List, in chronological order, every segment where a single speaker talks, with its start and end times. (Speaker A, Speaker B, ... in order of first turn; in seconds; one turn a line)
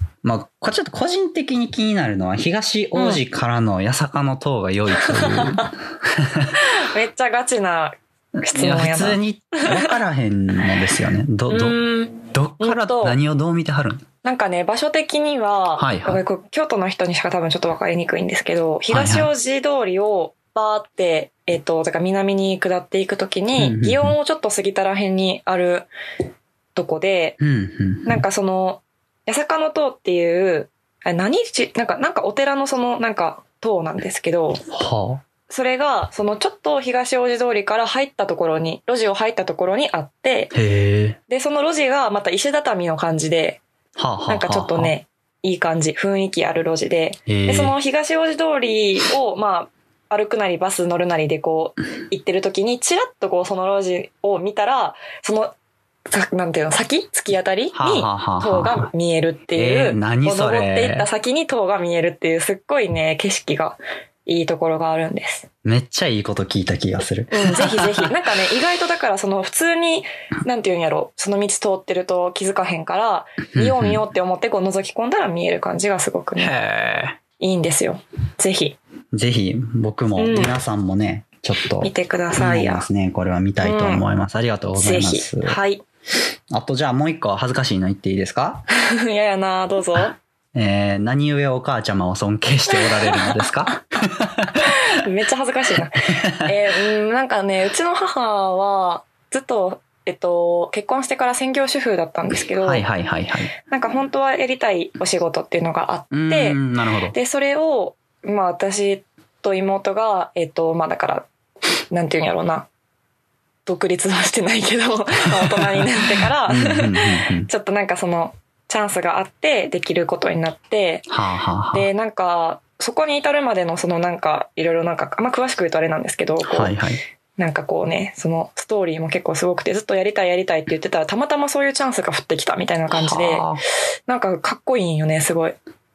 Speaker A: 0.2-6.5
Speaker B: 2.9-3.2
Speaker B: 5.0-5.7
Speaker B: 6.6-9.9
Speaker A: 8.4-14.0
Speaker B: 11.5-13.2
Speaker B: 14.2-25.9
Speaker A: 15.8-16.2
Speaker A: 18.9-19.3
Speaker A: 23.6-24.1
Speaker B: 26.7-27.4
Speaker A: 27.4-28.2
Speaker B: 28.1-34.6
Speaker A: 34.7-35.2
Speaker B: 35.5-40.5
Speaker A: 40.5-41.2
Speaker B: 41.3-43.6
Speaker A: 44.0-44.9
Speaker B: 44.3-55.5
Speaker A: 47.3-47.7
Speaker B: 56.1-65.5
Speaker A: 57.7-58.9
Speaker A: 59.5-61.1
Speaker A: 65.6-68.1
Speaker B: 67.3-76.5
Speaker A: 73.5-74.0
Speaker A: 76.4-77.2
Speaker B: 77.4-78.8
Speaker A: 79.1-85.6
Speaker B: 80.2-80.5
Speaker B: 81.8-82.9
Speaker B: 83.6-84.0
Speaker B: 84.8-85.8
Speaker A: 86.5-88.6
Speaker B: 88.7-90.2
Speaker A: 90.5-94.7
Speaker B: 92.7-93.4
Speaker B: 94.6-102.8
Speaker A: 96.1-96.5
Speaker A: 102.6-103.5
Speaker B: 103.6-106.6
Speaker A: 106.1-107.1
Speaker B: 107.1-111.3
Speaker B: 111.9-112.7
Speaker B: 113.7-121.1
Speaker A: 115.4-115.9
Speaker A: 116.5-117.5
Speaker A: 121.1-121.9
Speaker B: 121.7-126.7
Speaker A: 126.5-127.0
Speaker B: 127.4-133.5
Speaker A: 132.9-133.6
Speaker B: 134.1-135.6